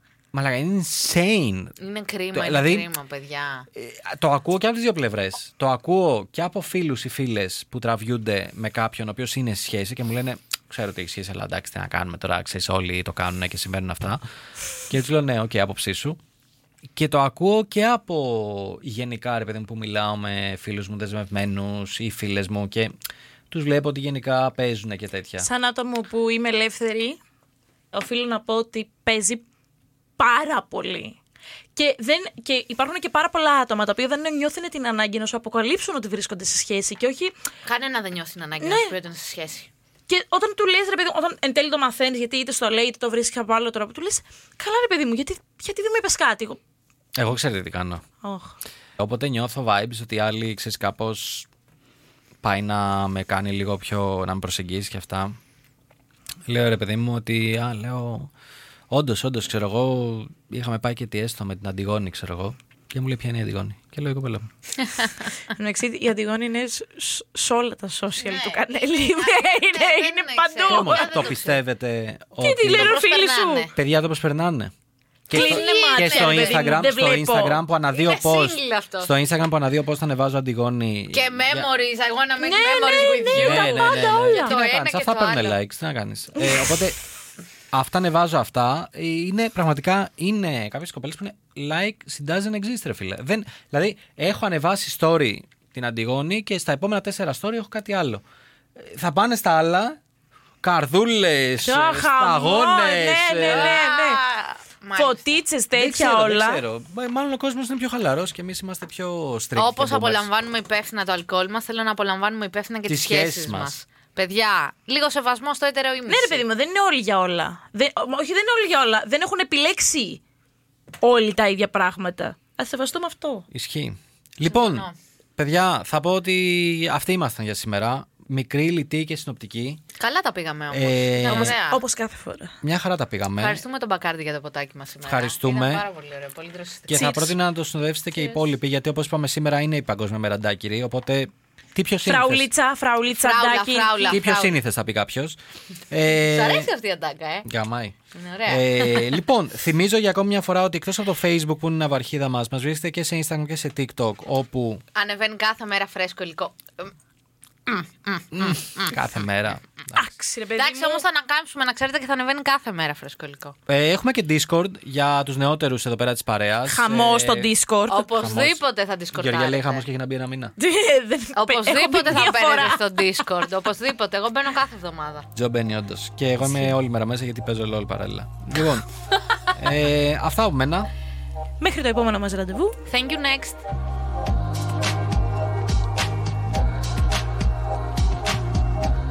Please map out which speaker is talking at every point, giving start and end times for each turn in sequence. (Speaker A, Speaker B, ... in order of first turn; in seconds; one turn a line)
Speaker A: 0.3-1.8
Speaker B: 1.8-3.7
Speaker A: 2.3-2.9
Speaker A: 3.7-14.2
Speaker A: 14.9-16.2
Speaker A: 16.9-22.9
Speaker A: 23.5-25.5
Speaker C: 25.4-27.2
Speaker C: 27.9-29.4
Speaker C: 30.2-31.1
Speaker C: 31.8-37.3
Speaker B: 37.6-39.7
Speaker C: 38.6-38.9
Speaker C: 40.1-46.6
Speaker A: 47.1-48.0
Speaker C: 48.2-48.5
Speaker A: 49.0-51.5
Speaker A: 52.4-55.4
Speaker A: 56.5-58.3
Speaker A: 58.9-64.5
Speaker B: 64.8-65.2
Speaker C: 65.5-71.3
Speaker B: 68.2-71.6
Speaker A: 70.7-73.0
Speaker C: 72.4-73.7
Speaker B: 72.7-73.7
Speaker A: 73.7-74.7
Speaker A: 75.3-81.7
Speaker C: 75.3-77.6
Speaker B: 75.3-76.8
Speaker B: 77.9-79.1
Speaker B: 81.1-85.6
Speaker C: 82.4-84.6
Speaker A: 83.3-87.0
Speaker A: 87.7-98.2
Speaker A: 98.8-100.0
Speaker A: 100.6-103.8
Speaker C: 101.6-104.2
Speaker B: 103.4-105.4
Speaker C: 104.9-106.6
Speaker A: 105.7-110.3
Speaker B: 109.5-116.4
Speaker A: 112.9-113.8
Speaker C: 116.1-120.2
Speaker C: 121.0-123.5
Speaker A: 123.5-129.8
Speaker B: 124.5-124.9
Speaker B: 130.0-131.8
Speaker A: 130.7-131.5
Speaker C: 131.2-132.5
Speaker A: 132.6-133.6
Speaker B: 133.4-137.1
Speaker A: 135.0-135.8
Speaker A: 136.9-142.5
Speaker C: 136.9-137.3
Speaker C: 142.1-144.2
Speaker B: 143.1-144.6
Speaker A: 144.1-145.4
Speaker A: 145.9-146.7
Speaker B: 146.2-147.5
Speaker A: 147.4-147.9
Speaker B: 148.1-149.2
Speaker A: 148.5-154.8
Speaker B: 154.9-156.9
Speaker B: 157.7-159.0
Speaker A: 158.3-160.0
Speaker C: 159.9-161.0
Speaker B: 160.6-163.6
Speaker A: 163.7-167.5
Speaker C: 166.7-168.2
Speaker B: 167.9-169.8
Speaker A: 168.2-168.6
Speaker A: 169.1-170.5
Speaker C: 170.6-173.2
Speaker B: 171.3-175.2
Speaker A: 175.3-178.9
Speaker A: 179.5-180.9
Speaker C: 181.6-182.8
Speaker B: 182.8-183.6